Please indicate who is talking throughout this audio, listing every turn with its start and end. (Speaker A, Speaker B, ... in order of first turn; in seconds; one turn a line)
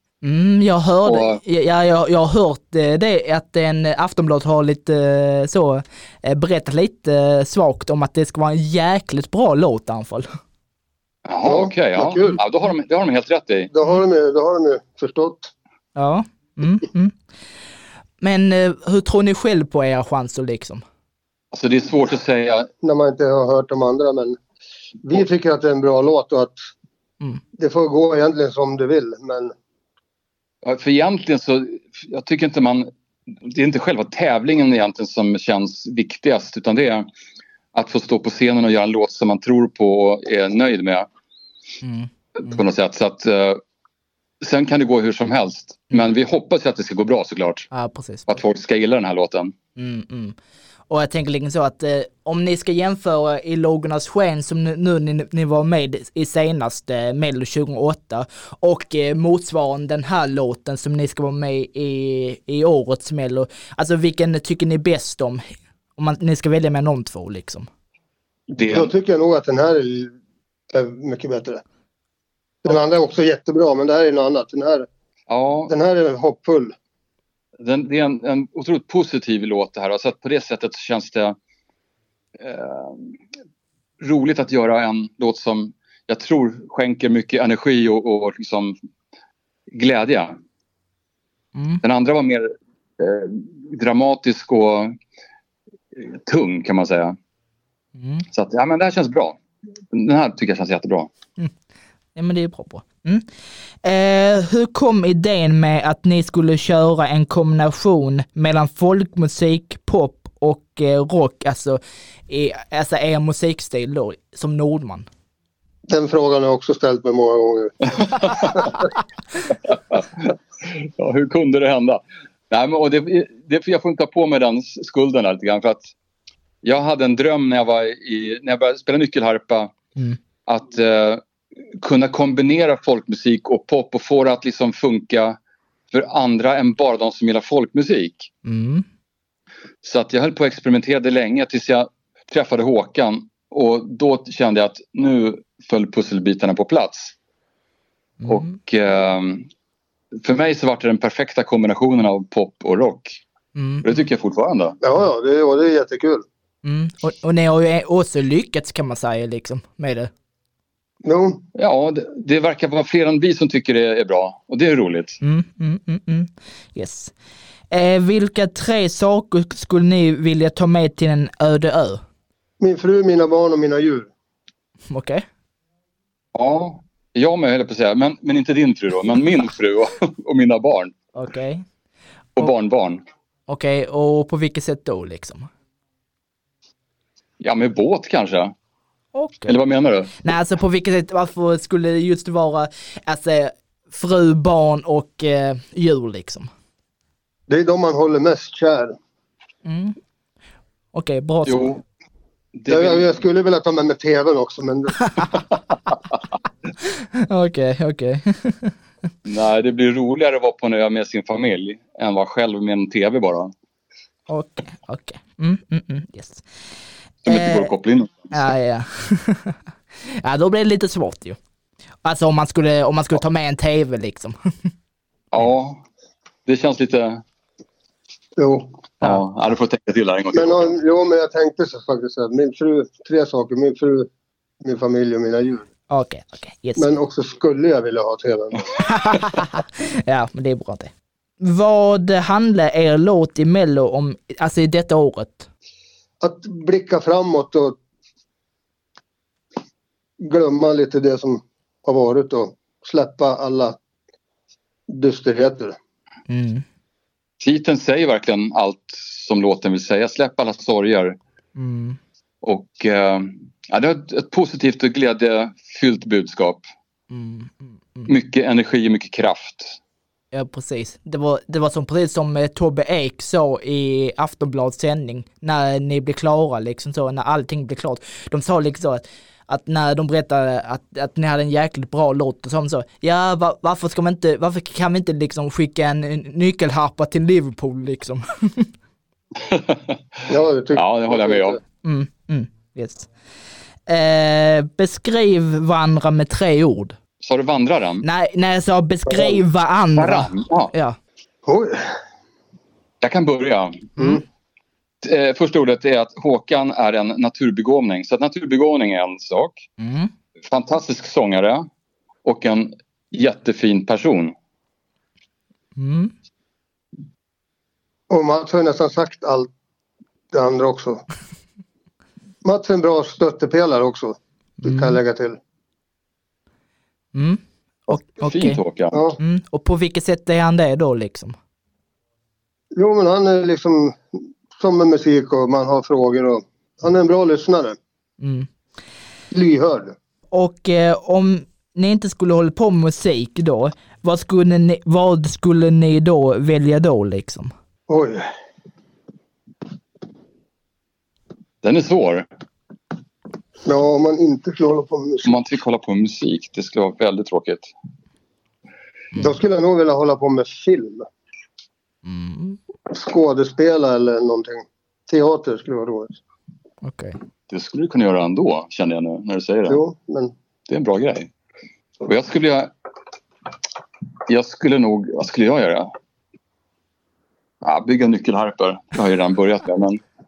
Speaker A: 0.2-10.3
Speaker B: 1.1-1.4
Speaker B: 11.2-13.7
Speaker C: 11.4-12.4
Speaker C: 13.7-15.5
Speaker A: 16.0-17.1
Speaker A: 18.2-20.8
Speaker B: 21.5-22.7
Speaker C: 22.8-24.4
Speaker C: 25.0-26.6
Speaker C: 27.6-29.5
Speaker B: 30.6-37.1
Speaker B: 37.7-41.1
Speaker A: 41.8-42.6
Speaker B: 42.4-43.6
Speaker B: 44.4-47.7
Speaker A: 47.7-48.3
Speaker B: 48.3-49.5
Speaker A: 49.8-50.4
Speaker A: 50.9-65.4
Speaker A: 66.0-67.7
Speaker B: 68.5-68.9
Speaker C: 68.7-70.2
Speaker C: 70.7-71.6
Speaker C: 72.7-74.9
Speaker B: 75.3-75.7
Speaker C: 75.7-76.7
Speaker B: 77.6-81.4
Speaker B: 82.4-83.1
Speaker B: 84.0-88.8
Speaker B: 89.7-90.4
Speaker A: 91.5-91.8
Speaker B: 91.8-94.9
Speaker B: 96.0-97.2
Speaker A: 98.0-98.2
Speaker B: 98.3-99.4
Speaker B: 99.9-101.1
Speaker A: 102.2-103.2
Speaker A: 103.8-115.1
Speaker C: 115.9-118.7
Speaker B: 118.2-118.5
Speaker B: 119.7-125.9
Speaker B: 126.6-129.7
Speaker B: 130.5-131.2
Speaker B: 131.8-135.4
Speaker B: 135.9-138.3
Speaker A: 138.4-138.8
Speaker B: 139.8-147.1
Speaker B: 148.3-149.5
Speaker B: 150.2-153.2
Speaker A: 153.6-153.9
Speaker B: 153.8-154.8
Speaker C: 154.8-156.2
Speaker A: 156.6-160.1
Speaker C: 161.0-161.4
Speaker B: 161.6-165.2
Speaker A: 165.2-167.1
Speaker A: 167.7-172.0
Speaker C: 172.6-174.1
Speaker A: 174.9-175.2
Speaker B: 176.3-180.9
Speaker A: 181.2-181.6
Speaker B: 182.4-183.0
Speaker A: 183.5-185.5
Speaker B: 187.4-188.5
Speaker A: 189.1-189.6
Speaker B: 189.5-190.2
Speaker A: 190.2-196.5
Speaker C: 197.5-198.9
Speaker A: 199.7-199.9
Speaker A: 200.9-201.8
Speaker B: 201.5-201.8
Speaker B: 202.6-203.1
Speaker C: 202.7-205.0
Speaker A: 207.1-208.7
Speaker B: 209.2-213.5
Speaker A: 214.3-216.4
Speaker B: 217.3-218.3
Speaker A: 217.3-217.7
Speaker A: 218.3-221.4
Speaker A: 222.0-224.3
Speaker B: 225.3-225.8
Speaker B: 226.5-227.2
Speaker C: 228.4-228.7
Speaker B: 229.0-230.8
Speaker C: 230.3-234.1
Speaker C: 234.6-235.7
Speaker A: 235.9-236.9
Speaker C: 236.8-238.7
Speaker A: 238.8-245.5
Speaker C: 246.2-247.8
Speaker C: 250.2-253.8
Speaker C: 254.9-255.8
Speaker A: 256.3-256.6
Speaker B: 257.4-261.2
Speaker A: 261.6-262.0
Speaker B: 262.4-266.6
Speaker A: 267.1-268.1
Speaker B: 268.1-269.8
Speaker A: 270.3-288.7
Speaker B: 289.5-290.0
Speaker C: 290.3-291.6
Speaker B: 290.8-291.6
Speaker A: 291.8-293.1
Speaker A: 293.9-297.0
Speaker B: 297.2-298.1
Speaker A: 298.0-301.0
Speaker C: 299.1-299.4
Speaker B: 300.0-300.7
Speaker C: 301.5-301.9
Speaker B: 303.0-303.9
Speaker B: 305.0-309.6
Speaker A: 309.8-310.1
Speaker B: 310.5-311.6
Speaker B: 312.2-314.3
Speaker A: 315.8-316.1
Speaker C: 318.1-319.5
Speaker C: 320.3-321.0
Speaker C: 322.4-325.4
Speaker A: 324.6-325.0
Speaker A: 327.1-328.6
Speaker B: 328.2-329.0
Speaker C: 328.9-329.2
Speaker A: 329.2-331.4
Speaker C: 332.8-337.8
Speaker A: 338.2-338.5
Speaker C: 339.3-339.9
Speaker A: 340.3-347.5
Speaker C: 347.9-348.2
Speaker B: 351.6-352.3
Speaker C: 353.6-355.3
Speaker B: 355.2-357.7
Speaker C: 359.2-361.1
Speaker A: 362.1-362.6
Speaker C: 362.9-366.2
Speaker A: 366.8-367.2
Speaker B: 367.5-369.8
Speaker C: 369.7-370.3
Speaker B: 370.7-371.3
Speaker B: 372.0-372.7
Speaker B: 374.3-375.9
Speaker B: 377.6-380.0